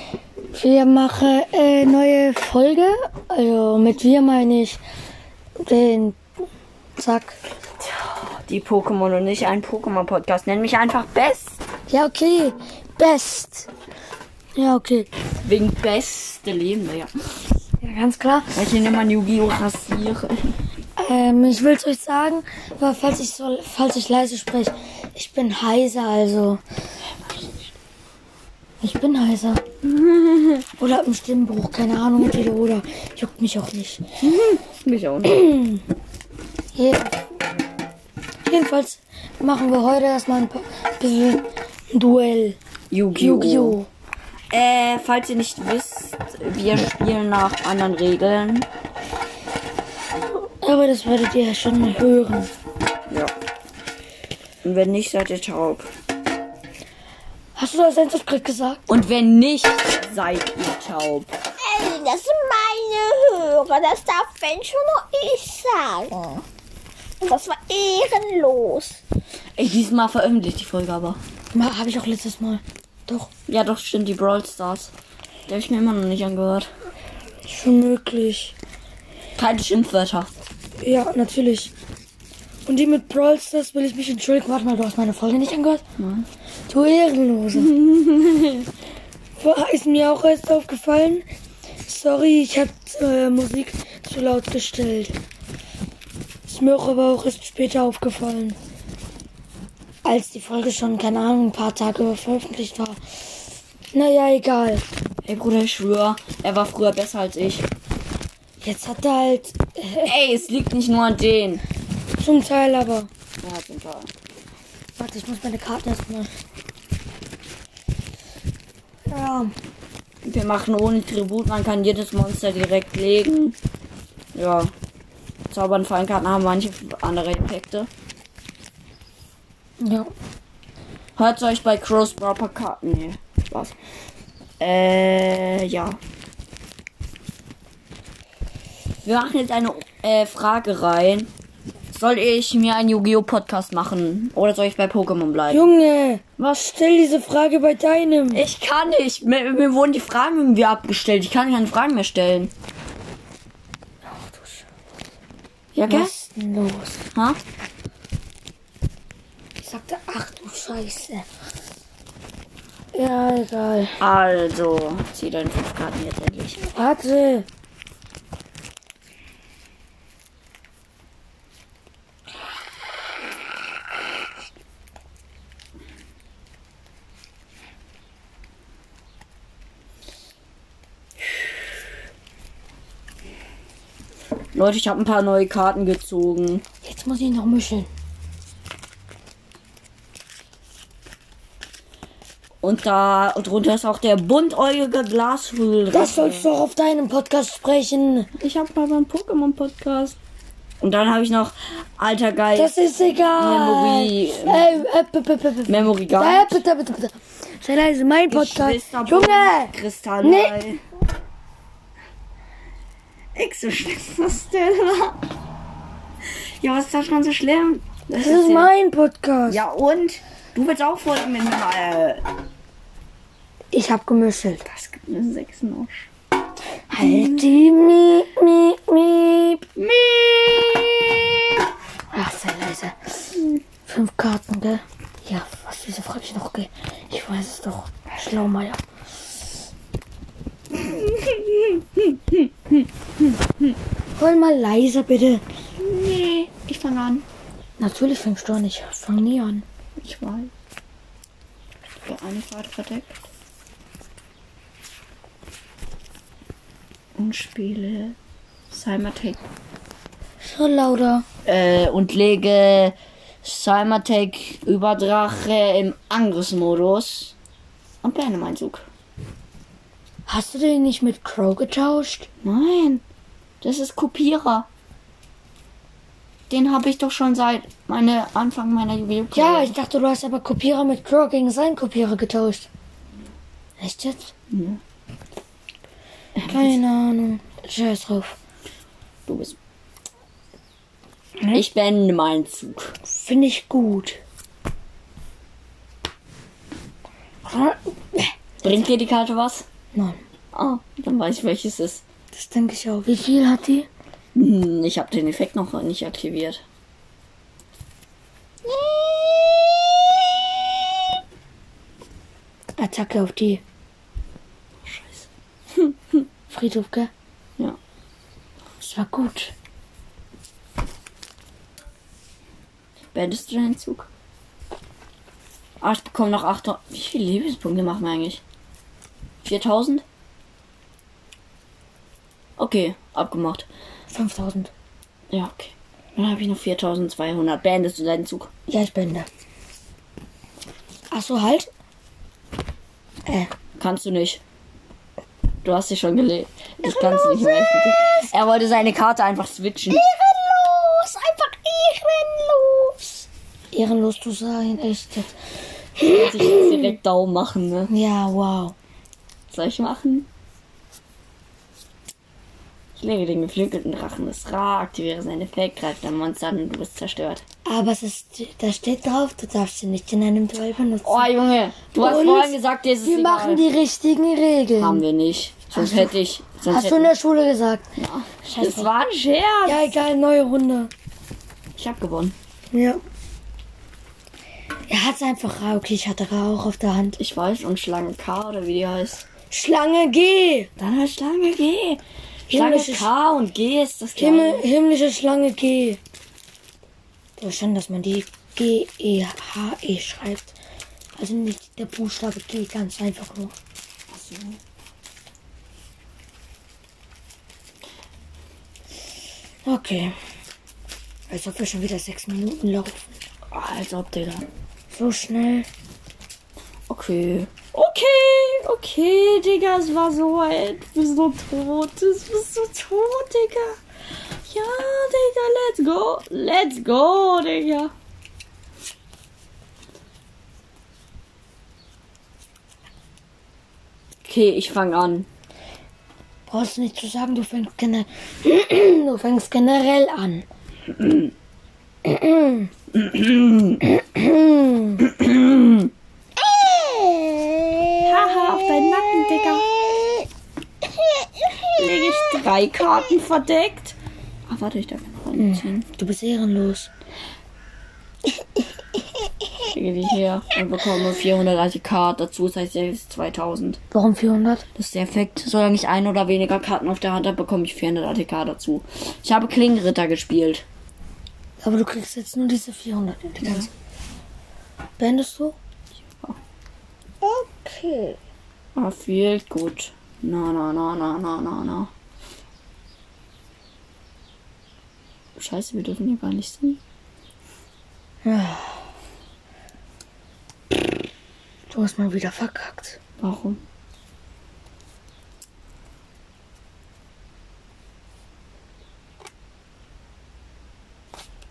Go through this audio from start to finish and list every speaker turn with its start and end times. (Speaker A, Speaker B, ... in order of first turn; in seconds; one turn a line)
Speaker A: 0.5-4.8
Speaker A: 5.6-6.2
Speaker A: 7.0-7.4
Speaker B: 8.3-11.6
Speaker A: 11.9-13.7
Speaker A: 14.6-15.1
Speaker B: 15.4-17.1
Speaker A: 17.8-18.6
Speaker B: 18.5-20.5
Speaker A: 21.0-26.6
Speaker B: 27.2-27.7
Speaker A: 28.8-29.6
Speaker B: 29.8-30.6
Speaker A: 30.8-34.0
Speaker B: 34.2-35.6
Speaker A: 35.2-35.8
Speaker A: 36.7-37.2
Speaker A: 38.5-42.6
Speaker B: 42.9-43.8
Speaker A: 43.1-43.9
Speaker B: 44.5-48.7
Speaker A: 50.4-52.5
Speaker B: 53.1-53.3
Speaker B: 54.6-55.9
Speaker A: 57.5-58.8
Speaker B: 58.9-61.3
Speaker C: 61.6-66.4
Speaker C: 67.2-69.0
Speaker B: 69.5-71.2
Speaker A: 71.5-73.3
Speaker B: 73.5-74.9
Speaker B: 75.5-76.7
Speaker A: 77.5-78.5
Speaker B: 79.3-80.3
Speaker A: 80.8-81.7
Speaker A: 82.7-85.8
Speaker B: 86.0-86.3
Speaker A: 86.7-87.8
Speaker B: 87.5-88.7
Speaker A: 89.4-91.2
Speaker A: 91.8-95.2
Speaker A: 96.5-98.6
Speaker A: 100.0-103.0
Speaker A: 103.9-104.8
Speaker B: 105.2-107.7
Speaker A: 108.6-110.1
Speaker B: 110.0-111.6
Speaker A: 112.2-113.1
Speaker B: 113.4-114.1
Speaker A: 115.0-116.3
Speaker A: 119.1-119.5
Speaker B: 120.2-123.5
Speaker B: 124.3-124.7
Speaker B: 125.5-127.9
Speaker A: 129.8-130.1
Speaker B: 131.2-133.7
Speaker B: 134.6-136.0
Speaker B: 139.0-141.3
Speaker B: 141.9-145.7
Speaker A: 145.5-148.4
Speaker B: 146.4-146.7
Speaker B: 148.3-152.5
Speaker A: 154.1-154.7
Speaker B: 155.7-156.1
Speaker A: 155.9-157.1
Speaker B: 157.1-157.4
Speaker A: 159.6-161.2
Speaker A: 162.9-164.0
Speaker B: 164.0-166.7
Speaker A: 166.7-167.5
Speaker B: 184.5-186.6
Speaker A: 186.8-187.9
Speaker B: 192.6-196.5
Speaker A: 195.9-198.3
Speaker B: 198.4-200.2
Speaker B: 200.8-202.8
Speaker A: 202.5-210.6
Speaker B: 203.3-204.8
Speaker B: 205.7-206.6
Speaker B: 208.3-210.8
Speaker B: 213.3-215.2
Speaker B: 216.2-218.7
Speaker A: 218.2-219.6
Speaker B: 219.5-222.2
Speaker A: 223.7-224.7
Speaker B: 224.7-226.1
Speaker A: 226.9-229.7
Speaker B: 227.0-227.5
Speaker B: 229.8-231.3
Speaker A: 232.1-233.3
Speaker A: 233.8-238.8
Speaker B: 240.7-243.7
Speaker A: 244.2-245.4
Speaker B: 245.8-247.2
Speaker A: 247.8-249.7
Speaker B: 250.0-250.5
Speaker B: 252.0-253.2
Speaker B: 257.2-258.1
Speaker B: 258.7-259.4
Speaker A: 260.4-261.2
Speaker B: 261.4-267.3
Speaker B: 268.0-268.9
Speaker A: 270.3-272.3
Speaker B: 272.4-273.0
Speaker B: 273.6-274.7
Speaker B: 276.5-279.8
Speaker A: 279.3-282.7
Speaker A: 283.8-284.3
Speaker B: 284.5-284.8
Speaker B: 286.3-286.8
Speaker A: 286.5-288.4
Speaker B: 289.2-289.6
Speaker B: 291.5-292.9
Speaker A: 293.0-294.2
Speaker A: 297.4-298.8
Speaker B: 298.6-299.6
Speaker A: 299.9-300.2
Speaker B: 300.5-302.0
Speaker A: 302.3-303.9
Speaker B: 304.3-306.6
Speaker C: 309.3-309.7
Speaker A: 312.8-313.6
Speaker B: 314.8-316.2
Speaker A: 316.5-317.1
Speaker A: 318.8-319.5
Speaker B: 323.1-324.1
Speaker B: 325.8-328.4
Speaker B: 329.4-330.0
Speaker B: 332.6-333.7
Speaker A: 334.1-334.7
Speaker B: 335.3-338.5
Speaker A: 338.7-339.3
Speaker A: 341.1-341.7
Speaker A: 343.2-343.5
Speaker B: 343.8-344.4
Speaker B: 345.6-350.0
Speaker C: 350.0-353.2
Speaker A: 353.7-355.3
Speaker A: 356.0-356.9
Speaker B: 356.1-357.9
Speaker A: 357.9-358.7
Speaker B: 359.5-360.3
Speaker B: 363.0-367.4
Speaker A: 367.6-371.3
Speaker B: 371.0-373.6
Speaker A: 371.9-375.0
Speaker B: 374.8-377.1
Speaker A: 375.7-377.9
Speaker B: 378.0-379.9
Speaker A: 378.4-378.9
Speaker A: 379.6-380.9
Speaker B: 381.8-382.4
Speaker A: 382.7-383.0
Speaker A: 384.9-387.2
Speaker B: 387.2-389.2
Speaker A: 389.5-390.7
Speaker B: 390.8-394.6
Speaker A: 392.5-393.1
Speaker A: 394.2-396.0
Speaker A: 397.4-400.6
Speaker A: 401.1-403.5
Speaker B: 404.1-404.6
Speaker A: 409.6-410.1
Speaker A: 411.3-413.1
Speaker B: 413.5-414.4
Speaker A: 414.9-415.7
Speaker B: 416.9-423.8
Speaker B: 424.4-427.9
Speaker B: 434.2-435.3
Speaker A: 436.5-440.4
Speaker B: 440.9-441.3
Speaker A: 442.0-442.7
Speaker B: 442.9-443.8
Speaker A: 443.8-445.1
Speaker B: 445.0-445.9
Speaker B: 448.0-449.7
Speaker B: 451.8-455.9
Speaker A: 455.4-456.9
Speaker B: 459.7-463.8
Speaker A: 463.9-464.6
Speaker B: 464.7-470.6
Speaker A: 471.6-473.7
Speaker B: 473.4-473.7
Speaker A: 475.0-475.6
Speaker B: 476.0-476.4
Speaker A: 477.2-478.2
Speaker B: 478.7-481.9
Speaker B: 485.4-486.8
Speaker A: 488.2-488.8
Speaker A: 491.7-493.0
Speaker B: 493.2-493.6